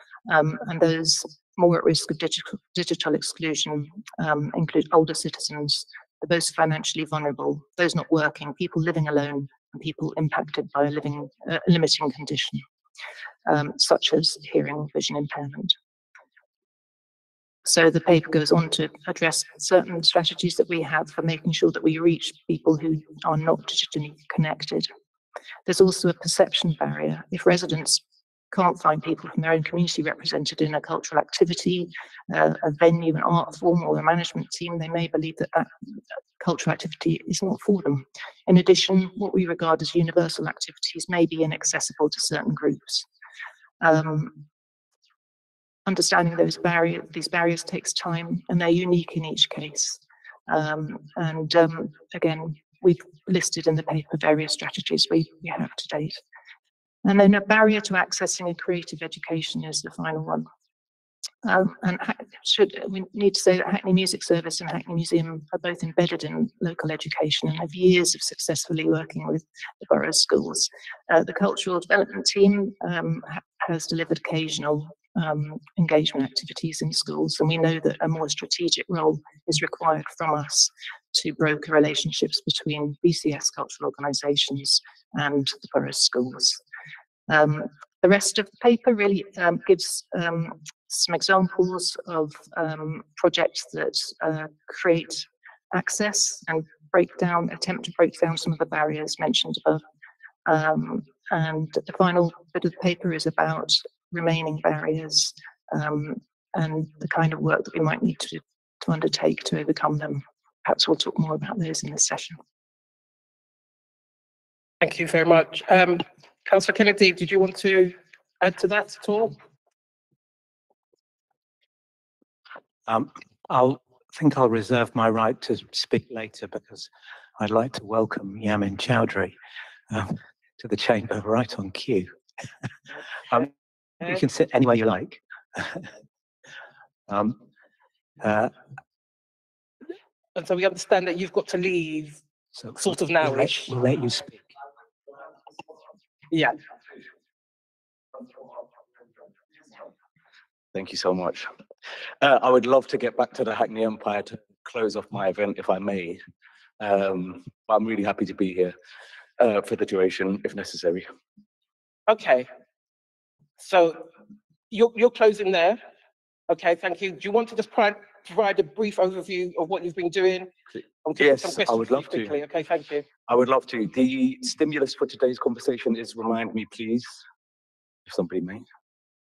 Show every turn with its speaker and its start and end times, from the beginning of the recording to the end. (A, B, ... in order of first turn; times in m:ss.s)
0:00.3-0:12.6 A
0:13.5-0:15.8 A
0:17.6-0:24.9 A
0:25.7-0:35.7 A
0:36.4-0:43.1 A
0:43.8-0:44.4 A
0:45.9-0:56.2 A
0:57.0-1:00.5 A
1:01.4-1:26.6 A
1:27.3-1:39.8 A
1:40.5-1:52.4 A
1:54.8-1:59.4 B
2:02.9-2:09.4 C
2:09.9-2:12.1 C
2:13.3-2:15.9 C
2:17.1-2:17.4 C
2:18.2-2:18.6 C
2:20.4-2:22.2 B
2:22.6-2:24.5 C
2:22.8-2:23.7 B
2:30.7-2:31.5 D
2:32.2-2:36.2 D
2:36.8-2:38.7 D
2:39.4-2:41.1 D
2:42.1-2:42.5 B
2:43.6-2:44.1 B
2:44.7-2:45.8 B
2:46.5-2:50.5 B
2:51.0-2:53.0 B
2:51.2-2:52.4 D
2:53.3-2:57.2 D
2:58.1-2:58.6 D